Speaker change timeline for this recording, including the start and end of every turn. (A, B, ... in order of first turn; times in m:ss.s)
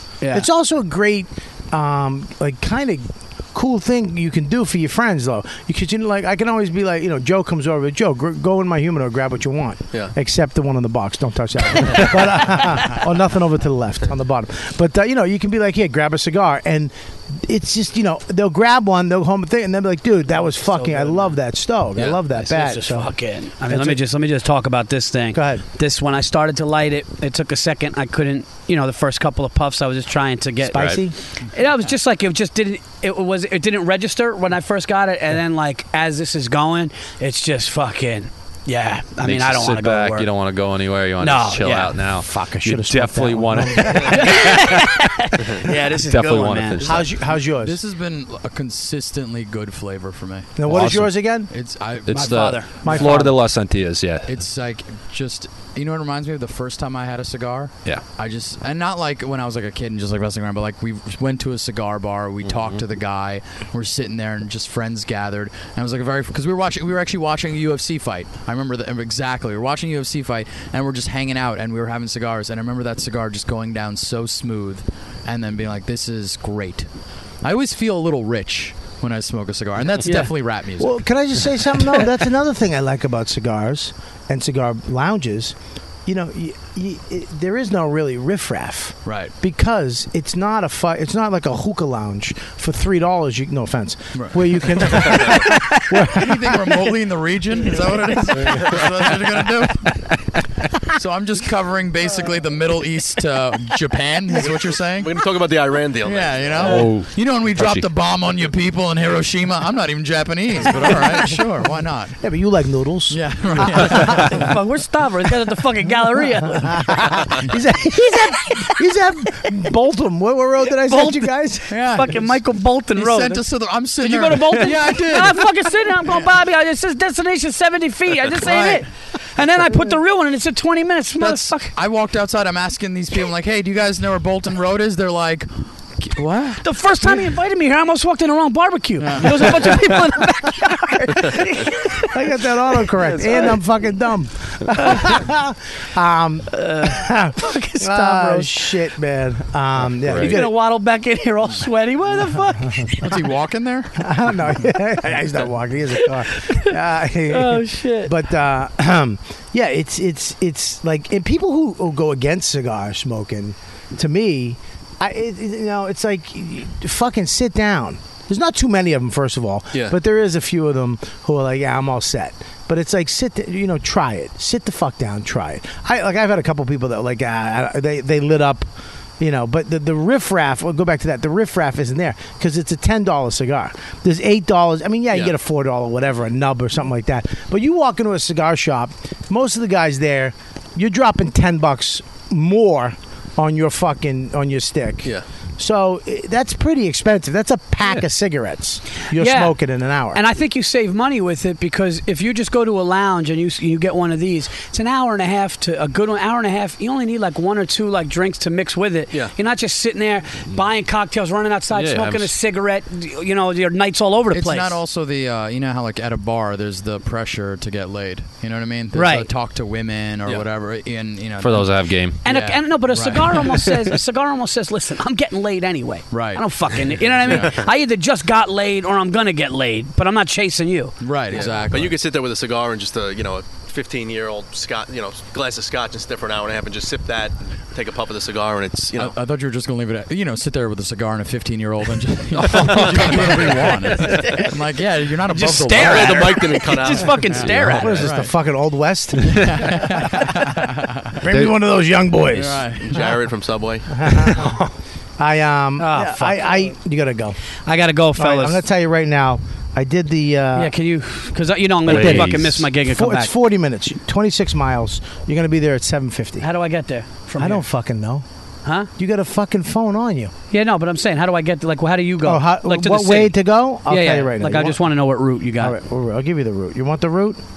0:00.2-0:00.5 A
0:00.3-0:23.1 B
0:20.6-0:21.3 A
0:22.3-0:40.3 A
0:23.7-0:24.0 B
0:25.3-0:25.6 B
0:30.6-0:31.2 B
0:39.2-0:44.6 C
0:41.2-0:42.0 A
0:42.1-0:44.4 B
0:43.9-0:46.8 A
0:46.1-0:47.1 C
0:46.8-0:53.3 D
0:46.8-0:47.8 B
0:50.6-0:51.5 B
0:50.7-0:51.1 C
0:52.1-0:54.3 C
0:52.1-0:53.2 A
0:52.8-0:53.3 B
0:54.2-1:16.9 D
1:02.4-1:02.8 C
1:17.4-1:21.0 D
1:20.8-1:36.9 B
1:29.0-1:29.3 D
1:34.1-1:35.1 D
1:35.2-1:35.5 E
1:36.0-1:40.0 D
1:40.8-1:45.1 D
1:44.4-1:46.8 E
1:46.0-1:52.2 D
1:46.6-1:47.9 C
1:52.2-1:54.3 B
1:53.1-1:54.6 D
1:54.1-1:57.3 A
1:56.6-2:01.8 B
1:58.0-1:58.8 A
2:00.9-2:11.7 A
2:01.7-2:06.3 D
2:08.3-2:08.8 D
2:11.2-2:16.6 D
2:16.6-2:23.6 A
2:19.0-2:19.6 D
2:21.1-2:30.5 B
2:24.8-2:25.1 A
2:26.5-2:28.8 A
2:30.0-2:30.4 C
2:30.1-2:33.2 A
2:32.6-2:32.9 B
2:33.0-2:34.1 D
2:34.0-3:20.2 B
2:35.9-2:36.7 A
2:37.3-2:38.1 A
3:19.1-3:19.5 A
3:20.1-3:34.8 A
3:31.7-3:32.3 C
3:34.3-3:43.9 D
3:38.9-3:39.3 A
3:41.4-3:42.2 C
3:42.2-3:51.5 A
3:46.1-3:47.6 D
3:51.0-3:52.0 D
3:51.3-3:59.2 E
3:59.0-4:06.4 D
4:02.4-4:03.7 C
4:03.9-4:04.5 A
4:05.3-4:08.1 A
4:05.8-4:07.2 E
4:07.3-4:08.3 D
4:07.4-4:07.9 C
4:07.7-4:10.2 B
4:09.2-4:09.5 C
4:09.3-4:11.2 D
4:11.2-4:12.8 B
4:12.3-4:13.2 D
4:12.9-4:14.2 E
4:13.9-4:17.4 B
4:15.8-4:16.7 A
4:17.6-4:18.6 A
4:18.2-4:20.7 B
4:20.6-4:23.3 A
4:21.8-4:26.5 B
4:21.9-4:22.6 C
4:26.4-4:27.6 A
4:27.4-4:28.2 B
4:29.0-4:30.3 B
4:30.5-4:35.8 A
4:32.2-4:34.8 B
4:35.6-4:37.4 B